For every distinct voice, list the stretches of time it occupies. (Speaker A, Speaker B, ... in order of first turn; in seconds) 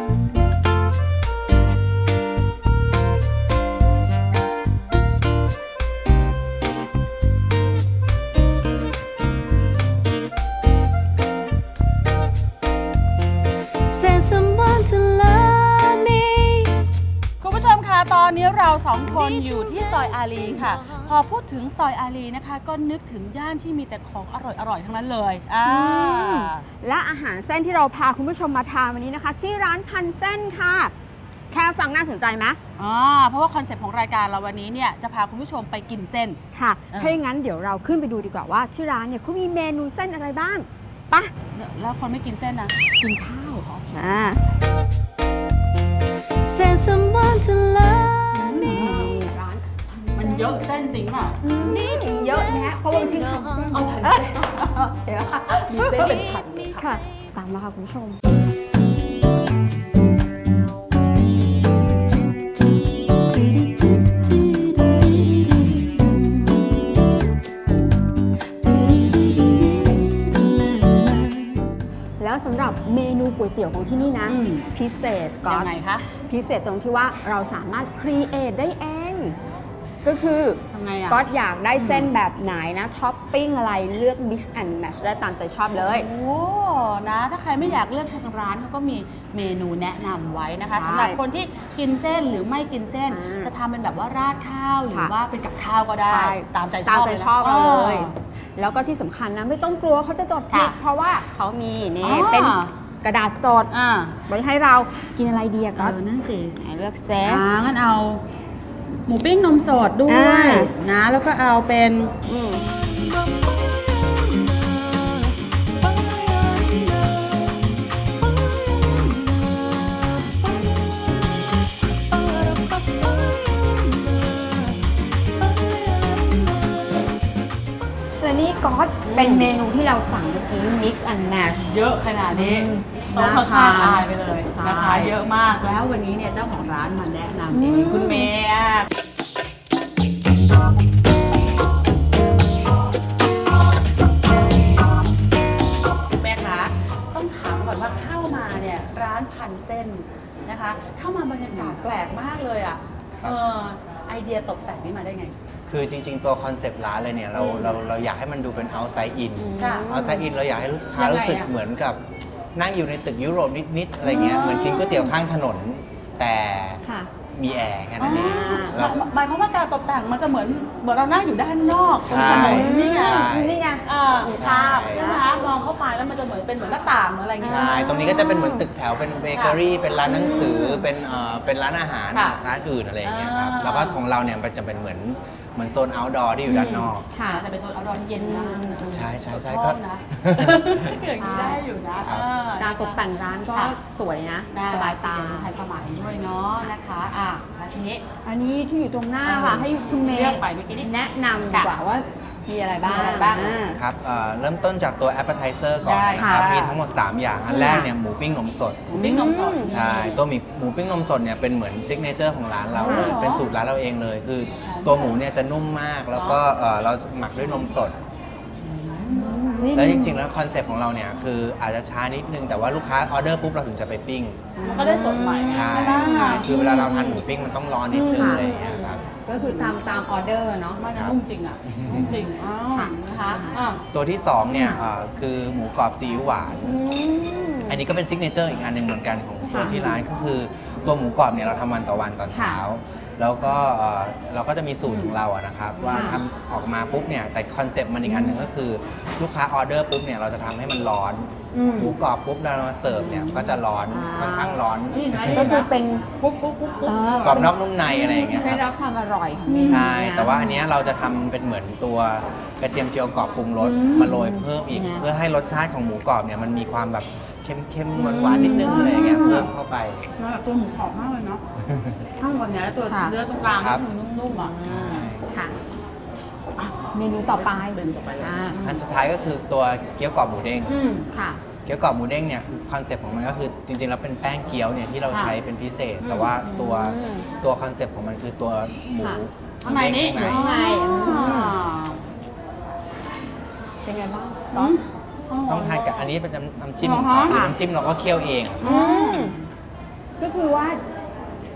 Speaker A: 13.8-16.9, 19.1-21.1, 46.4-48.8, 51.6-53.9, 55.9-56.9, 62.2-65.6, 68.7-71.5
Speaker B: 17.4-26.6, 32.8-36.4, 36.9-37.2, 41.5-42.8, 48.3-49.1, 50.1-51.4, 53.7-54.8, 55.5-57.0, 74.3-74.7, 75.4-76.1, 80.7-81.2, 81.8-82.1, 85.7-98.1, 100.5-100.7, 102.0-102.7, 103.7-104.2, 105.7-106.5, 107.2-108.2, 109.1-112.1, 116.4-116.8, 126.0-126.3, 129.0-129.5, 131.6-138.9, 146.2-155.3, 157.4-157.8, 159.6-160.0, 160.9-161.5, 164.0-165.1, 168.0-173.3, 173.8-177.9, 179.3-179.6, 180.2-180.5, 182.1-182.4, 183.0-184.0, 186.5-193.0, 194.5-198.0, 199.2-200.9, 201.5-201.8, 202.8-203.6, 205.8-206.8, 208.9-210.2, 212.7-213.5, 214.6-215.1, 216.2-216.4, 218.6-219.4, 224.6-227.2, 227.9-229.8, 230.8-233.8, 239.6-240.0, 244.9-245.2, 245.8-246.2, 251.5-252.0, 252.9-253.6, 254.9-257.4, 259.5-259.9, 263.6-264.2, 267.9-269.5, 270.2-271.4, 272.2-274.6, 276.6-278.8, 280.7-281.1, 285.1-285.4, 286.0-286.3, 289.6-292.0, 294.6-296.1, 296.8-297.5, 298.6-299.5
Speaker C: 25.6-30.9, 31.5-32.6, 36.5-41.3, 43.0-44.4, 48.6-50.6, 51.4-56.2, 56.8-58.2, 72.2-79.3, 80.0-86.1, 90.7-91.2, 93.0-93.5, 96.1-103.7, 104.2-106.0, 106.5-107.4, 110.0-110.7, 112.2-112.6, 128.2-131.7, 132.3-135.1, 137.5-138.3, 159.4-160.2, 166.8-167.1, 168.1-168.8, 172.1-173.8, 174.9-175.2, 177.4-178.7, 180.1-180.8, 187.1-187.4, 188.2-188.9, 191.2-191.6, 192.6-195.5, 198.2-203.8, 206.2-206.5, 207.5-207.9, 208.9-209.7, 212.8-213.2, 219.1-220.2, 224.6-226.5, 228.1-228.5, 229.2-230.8, 231.9-232.2, 232.8-233.6, 234.5-234.8, 236.6-237.8, 239.5-239.8, 242.3-242.6, 245.9-246.2, 253.9-254.6, 255.3-256.1, 256.9-260.6, 264.0-265.1, 268.5-269.4, 272.8-273.2, 274.3-275.6, 276.9-278.6, 281.1-281.4, 286.4-287.3, 288.9-289.2, 290.2-291.6, 293.8-294.8, 297.3-297.6, 298.6-299.4, 300.2-300.8
Speaker D: 155.7-162.0, 162.5-166.8, 167.3-169.0, 172.0-173.6, 174.2-175.0, 177.4-187.1, 188.9-191.0, 192.0-192.3, 203.7-208.9, 209.7-218.0, 219.7-224.4, 225.5-229.1, 230.9-232.1, 233.9-236.7, 237.7-255.6, 257.2-258.7, 259.6-270.1, 273.4-273.8, 274.6-275.5, 278.6-280.8, 281.7-290.5, 295.4-298.7